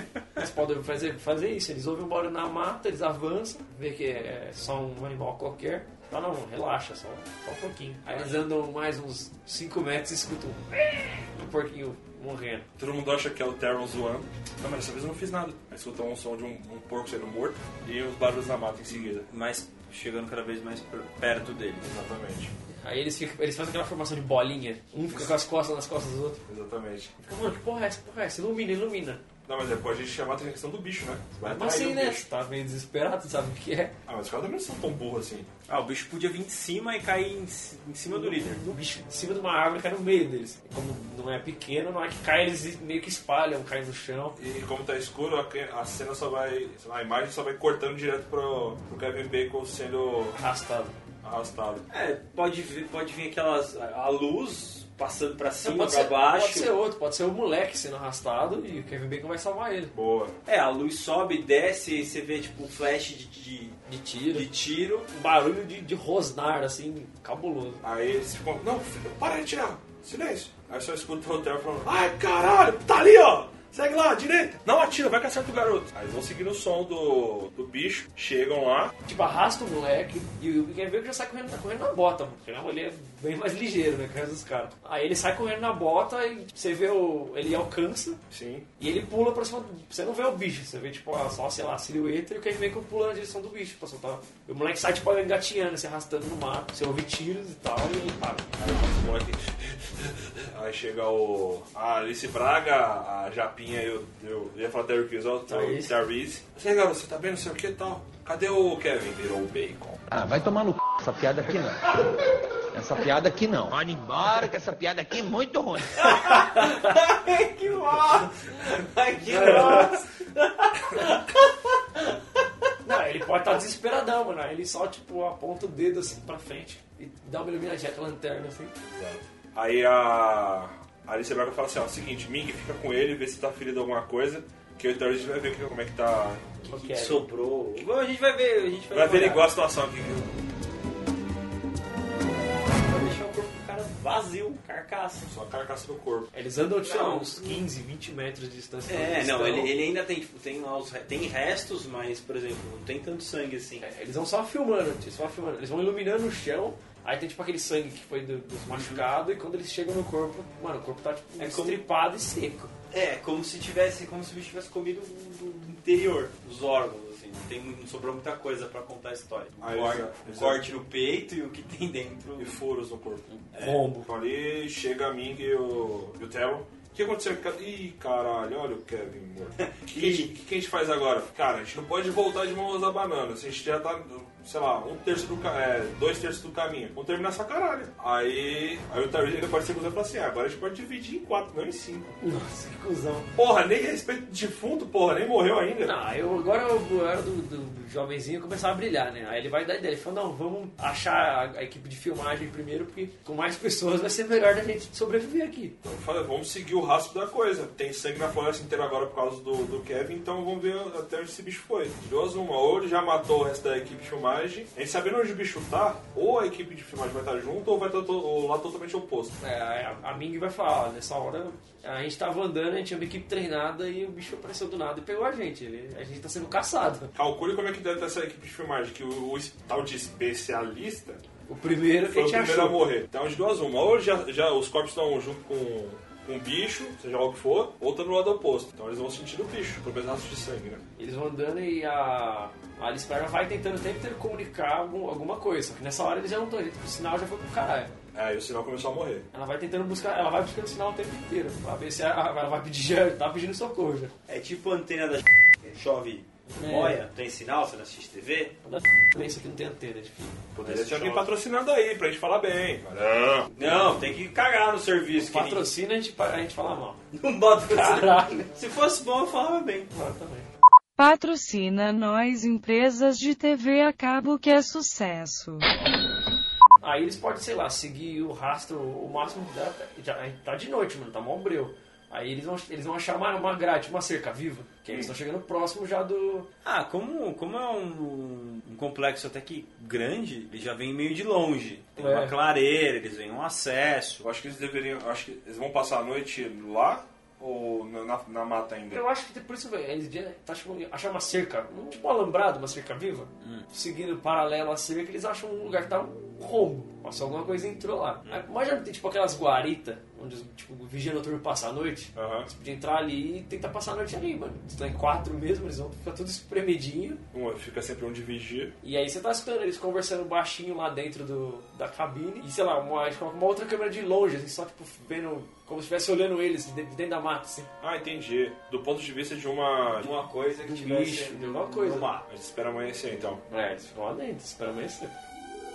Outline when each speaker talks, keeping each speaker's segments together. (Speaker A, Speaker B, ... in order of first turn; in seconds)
Speaker A: 0.3-12.7, 22.7-26.4, 27.2-29.2, 31.4-33.9, 38.1-44.4, 50.4-50.9, 55.6-59.9, 63.9-64.5, 65.1-67.8, 79.0-88.2, 88.8-98.5, 105.5-105.9, 119.3-119.9, 122.8-128.7, 136.6-137.2, 146.3-149.7, 153.8-162.7, 173.6-174.1, 192.2-193.3, 195.8-205.8, 219.4-227.1, 231.5-232.8, 241.0-247.9, 249.3-254.1, 256.6-257.0, 258.6-260.4, 265.2-267.0, 267.7-268.5, 269.9-270.5, 276.8-286.5, 292.0-292.3, 298.9-317.2, 318.8-327.7, 330.7-332.1, 333.5-335.1
Speaker B: 12.8-19.2, 21.8-22.5, 26.5-27.1, 29.4-32.2, 34.1-35.5, 44.4-50.4, 51.2-51.8, 59.9-60.3, 67.8-78.9, 88.3-88.7, 98.6-110.0, 128.8-136.5, 138.9-140.3, 145.2-146.3, 169.6-170.8, 172.4-173.3, 174.0-192.1, 193.3-195.9, 205.8-219.4, 227.1-231.2, 232.1-240.8, 248.1-249.2, 260.5-263.5, 294.2-299.0, 312.1-312.5, 317.3-318.7, 327.8-330.1, 332.3-333.4
Speaker C: 18.9-21.9, 35.7-38.6, 51.9-56.7, 60.5-63.8, 64.3-65.1, 115.9-122.1, 136.7-139.5, 142.7-145.2, 146.9-147.4, 148.9-153.8, 158.7-159.1, 161.4-161.8, 162.9-172.6, 173.4-173.8, 179.6-180.3, 254.3-258.6, 260.6-261.3, 263.6-265.7, 267.1-269.9, 286.6-294.2, 330.0-332.2
Speaker D: 110.1-111.9, 112.7-116.0
Speaker E: 271.0-275.7